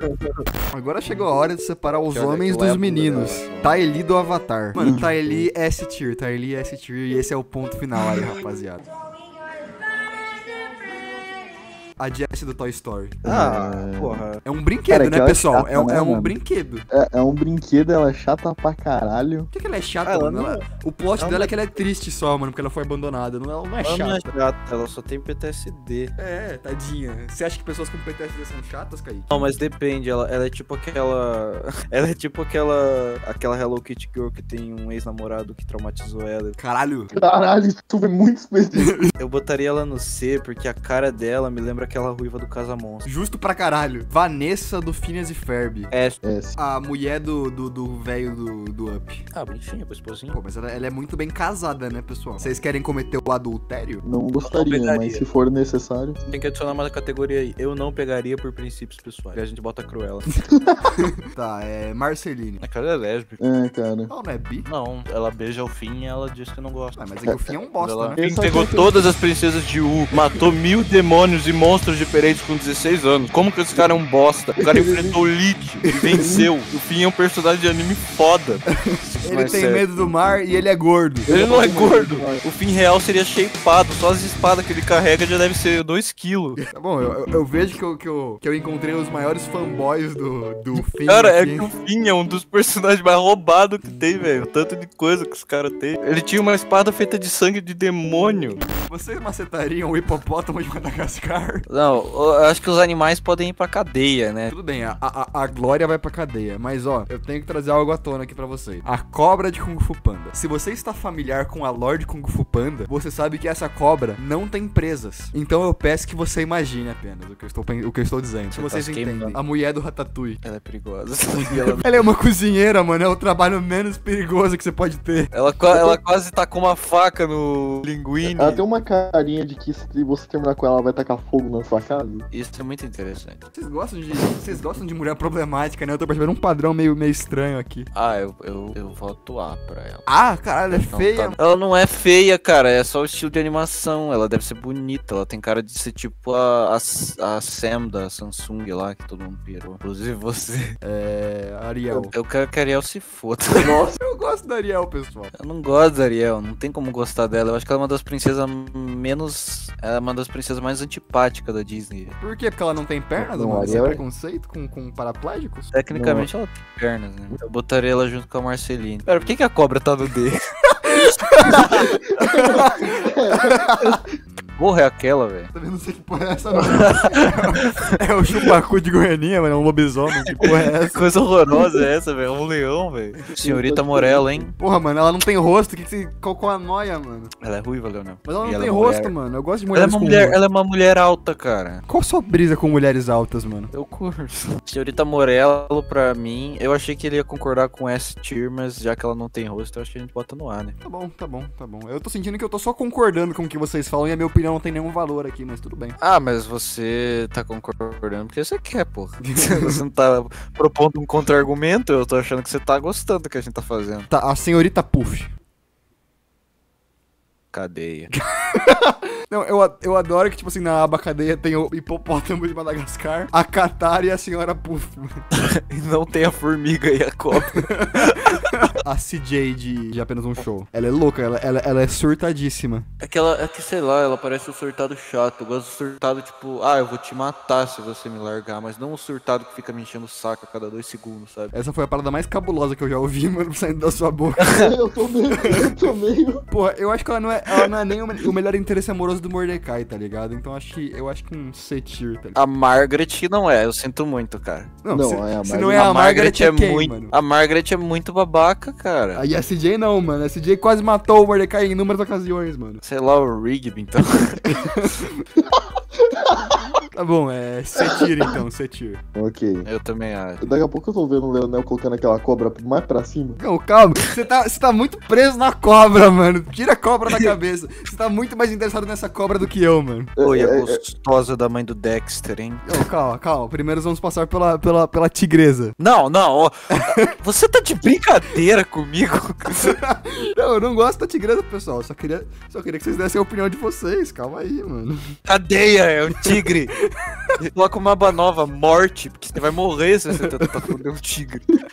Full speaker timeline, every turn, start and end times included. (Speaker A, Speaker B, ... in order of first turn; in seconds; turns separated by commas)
Speaker A: 0.7-8.8, Speaker B: 2.0-3.8, Speaker C: 4.8-5.5, Speaker A: 12.0-13.2, Speaker B: 13.2-14.4, Speaker C: 13.2-14.2, Speaker A: 14.4-16.8, Speaker C: 14.9-16.3, Speaker C: 16.9-19.5, Speaker A: 19.5-24.3, Speaker B: 20.0-20.6, Speaker B: 21.2-21.5, Speaker B: 23.8-26.1, Speaker A: 26.1-29.4, Speaker B: 29.3-36.6, Speaker A: 36.6-37.2, Speaker C: 37.1-39.0, Speaker B: 39.2-43.1, Speaker A: 43.0-45.9, Speaker B: 45.9-46.2, Speaker C: 46.2-46.6, Speaker A: 46.6-49.2, Speaker B: 49.3-50.4, Speaker A: 50.3-54.0, Speaker C: 54.0-56.2, Speaker B: 54.4-55.2, Speaker B: 56.2-60.3, Speaker C: 60.5-60.8, Speaker A: 61.3-62.6, Speaker B: 62.6-63.5, Speaker C: 63.4-64.1, Speaker A: 64.1-64.7, Speaker B: 64.6-67.0, Speaker A: 67.0-68.2, Speaker C: 67.3-67.5, Speaker B: 67.8-79.9, Speaker C: 68.2-69.0, Speaker C: 74.6-75.2, Speaker A: 75.9-76.2, Speaker C: 76.2-76.5, Speaker A: 78.7-81.3, Speaker C: 81.3-82.4, Speaker B: 81.3-86.6, Speaker A: 86.6-91.7, Speaker B: 90.7-98.6, Speaker A: 98.8-101.7, Speaker B: 101.7-104.5, Speaker A: 104.5-120.4, Speaker B: 118.5-119.4, Speaker B: 120.4-122.0, Speaker A: 121.7-125.3, Speaker B: 125.3-128.6, Speaker C: 125.7-126.0, Speaker C: 128.2-132.3, Speaker B: 132.3-133.4, Speaker A: 133.5-137.9, Speaker B: 137.9-140.1, Speaker A: 140.1-141.3, Speaker B: 140.7-150.7, Speaker A: 150.8-152.1, Speaker B: 151.9-153.8, Speaker C: 153.6-154.0, Speaker A: 153.9-155.3, Speaker B: 155.3-162.2, Speaker A: 162.2-165.7, Speaker C: 163.2-164.0, Speaker B: 165.7-170.4, Speaker C: 165.9-166.3, Speaker B: 170.9-173.1, Speaker A: 171.2-174.6, Speaker C: 172.2-173.6, Speaker B: 174.6-175.5, Speaker A: 175.5-181.0, Speaker B: 176.7-177.8, Speaker B: 180.4-184.5, Speaker C: 183.4-184.4, Speaker A: 184.6-187.3, Speaker B: 187.4-189.1, Speaker A: 188.2-190.4, Speaker B: 189.7-191.8, Speaker A: 191.9-193.7, Speaker B: 193.7-200.7, Speaker A: 200.8-205.9, Speaker B: 206.0-214.1, Speaker A: 209.2-209.8, Speaker A: 214.1-215.3, Speaker B: 217.5-218.1, Speaker A: 218.2-225.2, Speaker B: 225.7-228.4, Speaker A: 227.3-232.9, Speaker B: 233.0-241.5, Speaker A: 241.5-244.7, Speaker C: 244.6-246.4, Speaker A: 245.4-245.7, Speaker A: 246.5-252.4, Speaker B: 252.3-254.7, Speaker A: 254.8-257.1, Speaker C: 254.9-255.9, Speaker B: 255.7-259.2, Speaker A: 259.1-262.8, Speaker B: 262.8-264.5, Speaker A: 264.4-265.2, Speaker C: 266.2-266.6, Speaker A: 266.9-269.0, Speaker C: 269.1-269.7, Speaker B: 269.6-270.5, Speaker C: 270.4-273.4, Speaker A: 273.4-280.1, Speaker C: 280.2-280.8, Speaker B: 280.2-282.8, Speaker A: 282.6-285.8, Speaker B: 285.8-289.8, Speaker A: 286.7-287.0, Speaker A: 289.5-295.0, Speaker B: 295.2-296.7, Speaker A: 296.2-297.1, Speaker B: 297.4-301.5, Speaker A: 300.1-300.5